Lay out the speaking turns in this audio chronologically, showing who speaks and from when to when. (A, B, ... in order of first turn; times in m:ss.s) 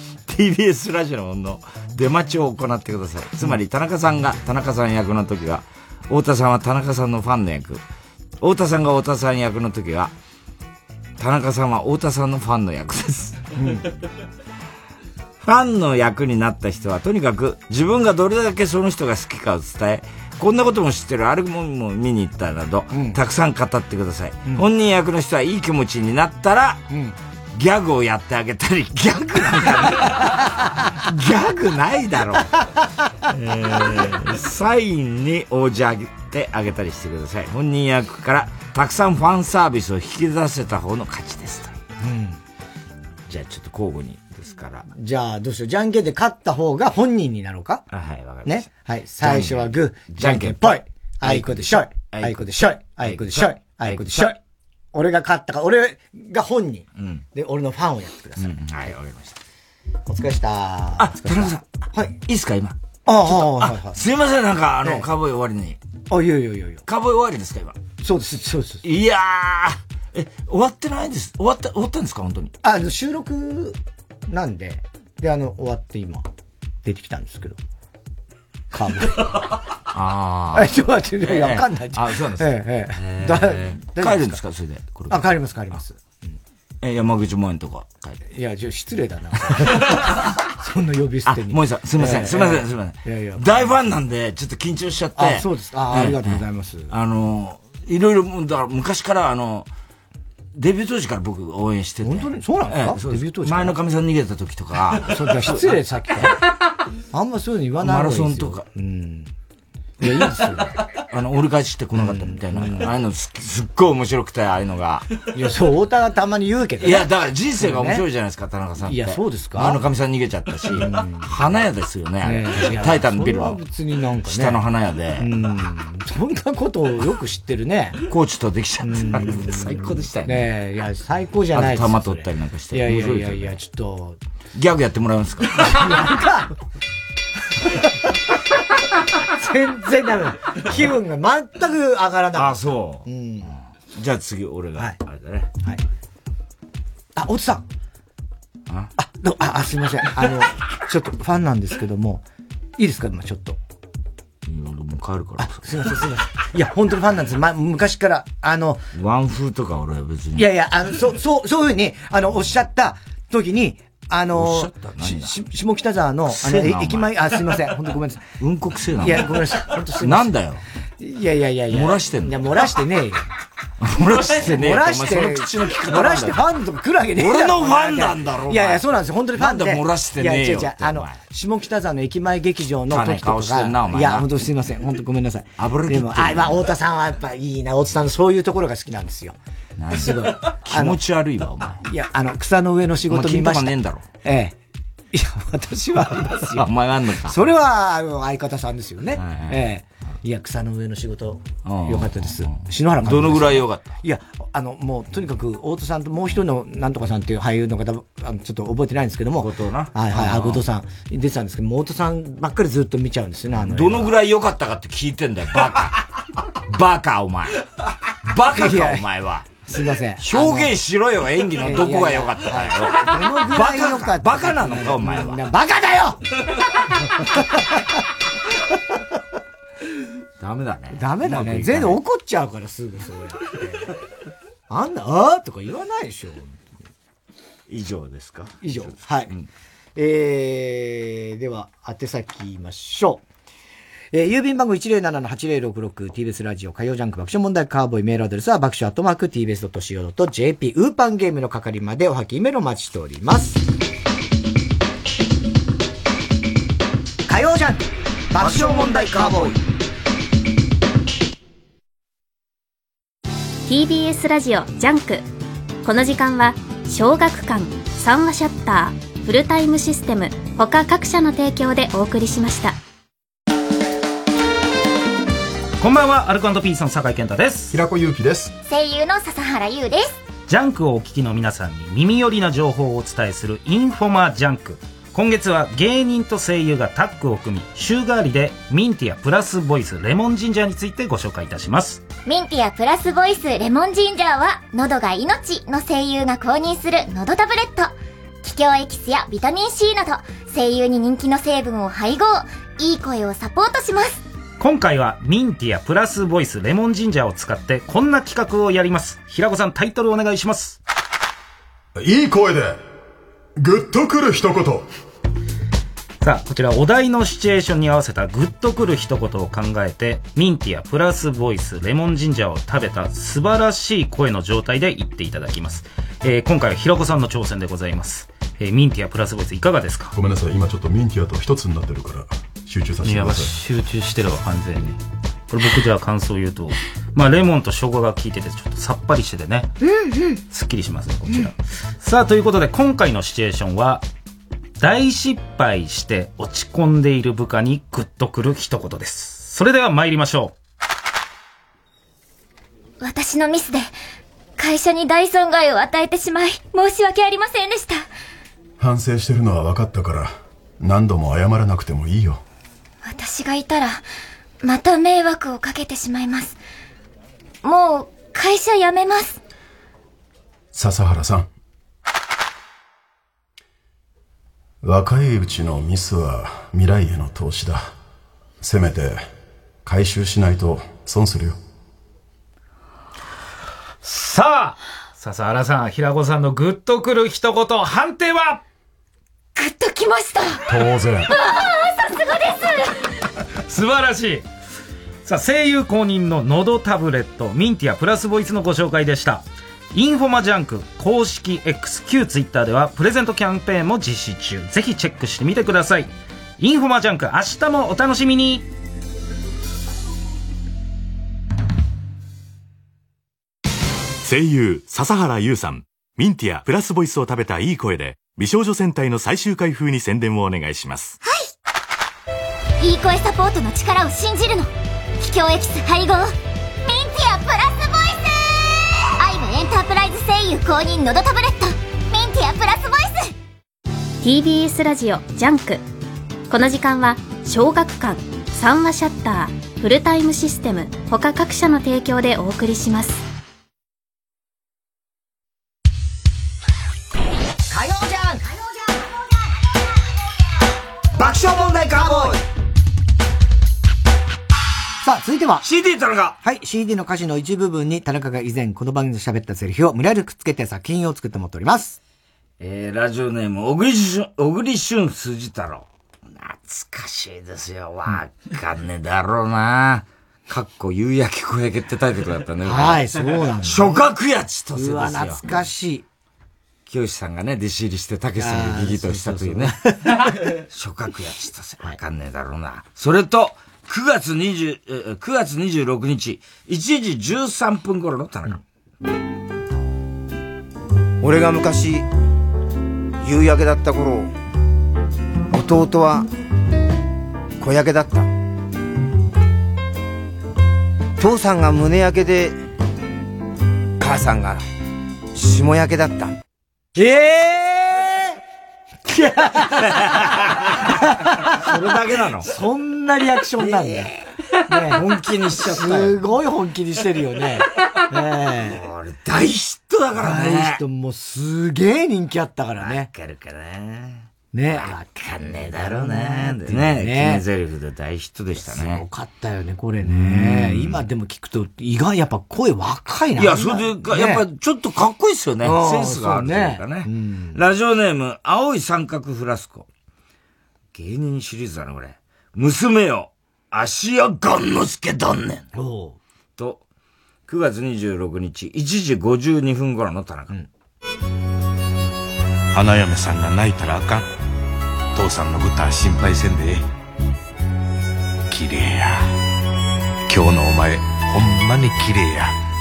0:00.3-0:07.8 A
0:08.4-0:10.1 A
0:11.2-0:13.5 A
0:13.6-0:13.9 B
0:15.4-0:26.9 A
0:22.9-0:23.2 B
0:26.9-0:27.1 B
0:27.5-0:32.6 A
0:33.3-0:41.8 A
0:42.0-0:42.4 B
0:43.3-0:44.9 A
0:44.9-0:47.8 B
0:47.9-0:48.7 A
0:48.4-0:54.4 B
0:49.2-0:54.4 A
0:54.9-0:58.5 B
0:57.0-0:57.2 A
0:58.4-0:59.4 A
1:00.1-1:02.2 B
1:01.0-1:01.6 A
1:02.2-1:05.8 A
1:03.0-1:04.0 B
1:06.1-1:06.8 B
1:06.8-1:07.8 A
1:08.0-1:08.8 B
1:08.8-1:12.5 A
1:12.6-1:13.8 B
1:14.3-1:16.2 B
1:16.8-1:17.6 B
1:18.7-1:19.4 B
1:19.9-1:25.3 A
1:20.5-1:24.4 B
1:25.1-1:26.2 B
1:26.8-1:28.2 A
1:28.3-1:33.8 B
1:29.6-1:30.3 A
1:31.2-1:39.7 A
1:35.2-1:36.9 B
1:40.5-1:45.7 A
1:42.0-1:43.8 B
1:45.0-1:46.4 B
1:47.1-1:49.3 B
1:47.8-1:48.6 A
1:50.0-1:50.8 B
1:50.0-1:55.1 A
1:52.0-1:52.9 B
1:55.3-1:58.0 B
1:56.8-2:03.6 A
1:58.8-1:59.8 B
2:00.8-2:01.3 B
2:02.2-2:04.6 B
2:04.2-2:05.5 A
2:05.2-2:08.0 B
2:08.0-2:10.5 A
2:08.8-2:14.2 B
2:11.5-2:13.6 A
2:14.5-2:15.9 A
2:15.6-2:16.5 B
2:19.2-2:23.6 B
2:22.3-2:23.1 A
2:23.9-2:25.5 A
2:27.2-2:27.6 B
2:29.0-2:32.2 B
2:32.8-2:33.6 B
2:34.4-2:36.0 A
2:35.4-2:38.9 B
2:38.9-2:40.5 A
2:40.3-2:48.2 B
2:44.3-2:45.4 A
2:46.3-2:47.5 A
2:48.4-2:50.6 A
2:49.0-2:50.4 B
2:51.0-2:53.3 B
2:51.7-2:52.7 A
2:53.8-2:56.4 A
2:54.2-3:09.4 B
2:57.2-2:58.8 A
2:59.4-3:01.2 A
3:02.9-3:04.4 A
3:05.6-3:06.7 A
3:09.8-3:11.8 A
3:09.9-3:11.0 B
3:11.8-3:14.6 B
3:13.1-3:14.0 A
3:15.1-3:16.7 B
3:16.3-3:17.5 A
3:17.2-3:34.1 B
3:19.1-3:19.6 A
3:21.6-3:23.9 A
3:29.4-3:30.6 A
3:33.6-3:36.0 A
3:36.6-3:37.6 A
3:38.2-3:39.5 A
3:38.5-3:39.0 B
3:39.6-3:40.7 B
3:40.2-3:45.4 A
3:41.6-3:46.2 B
3:47.2-3:47.9 B
3:50.4-3:52.0 A
3:50.9-3:53.9 B
3:54.7-3:56.6 B
3:57.7-3:59.5 A
3:58.6-3:59.3 B
4:00.0-4:03.2 B
4:04.1-4:13.6 B
4:17.3-4:19.6 B
4:18.4-4:19.6 A
4:23.7-4:25.3 C
4:25.8-4:32.8 C
4:35.8-4:37.8 D
4:37.7-4:38.5 E
4:38.7-4:40.2 F
4:40.5-4:52.1 D
4:52.2-5:04.2 F
5:04.6-5:10.8 D
5:12.0-5:12.8 E
5:13.6-5:14.9 E
5:16.2-5:30.1 D
5:30.1-5:33.6 E
5:33.0-5:35.0 D
5:35.5-5:39.7 D
5:40.4-5:44.0 D
5:44.8-5:50.5 D
5:53.0-5:53.9 F
5:54.6-5:58.1 F
5:58.8-6:02.4 E
6:03.0-6:04.0 F
6:04.6-6:06.6 F
6:07.6-6:09.4 F
6:10.7-6:11.5 E
6:14.8-6:17.9 E
6:18.6-6:19.2 E
6:19.8-6:21.6 E
6:24.0-6:28.6 D
6:29.6-6:30.6 F
6:30.7-6:31.3 E
6:31.5-6:32.9 F
6:33.6-6:34.4 D
6:35.2-6:48.6 D
6:54.2-7:01.2 G
7:02.8-7:06.3 F
7:06.8-7:13.3 F
7:14.2-7:15.8 C
7:16.5-7:23.2 C
7:27.7-7:28.4 B
7:31.1-7:32.4 B
7:32.1-7:32.3 A
7:35.0-7:35.6 B
7:35.6-7:36.4 A
7:36.4-7:42.0 B
7:42.6-7:55.5 A
7:52.6-7:54.0 B
7:54.7-7:56.0 B
7:56.8-8:08.6 A
7:58.4-8:00.5 B
8:11.2-8:12.0 H
8:13.2-8:14.3 H
8:15.5-8:16.3 H
8:17.6-8:18.3 H
8:21.2-8:22.6 H
8:24.0-8:24.6 H
8:25.3-8:26.4 H
8:27.0-8:28.3 B
8:29.1-8:31.6 B
8:29.8-8:30.9 A
8:31.4-8:32.5 A
8:32.4-8:34.1 B
8:33.6-8:34.3 A
8:34.6-8:35.0 B
8:34.9-8:36.2 A
8:35.6-8:38.8 B
8:38.6-8:40.8 A
8:40.2-8:43.1 B
8:42.8-8:49.0 A
8:44.5-8:47.4 B
8:48.6-8:54.4 B
8:50.0-8:51.0 A
8:53.4-8:59.9 A
8:55.6-8:57.6 B
9:00.9-9:05.7 A
9:05.7-9:06.2 B
9:06.6-9:06.8 A
9:07.5-9:10.6 A
9:12.7-9:14.3 I
9:15.2-9:16.8 I
9:18.5-9:19.3 I
9:20.3-9:22.6 I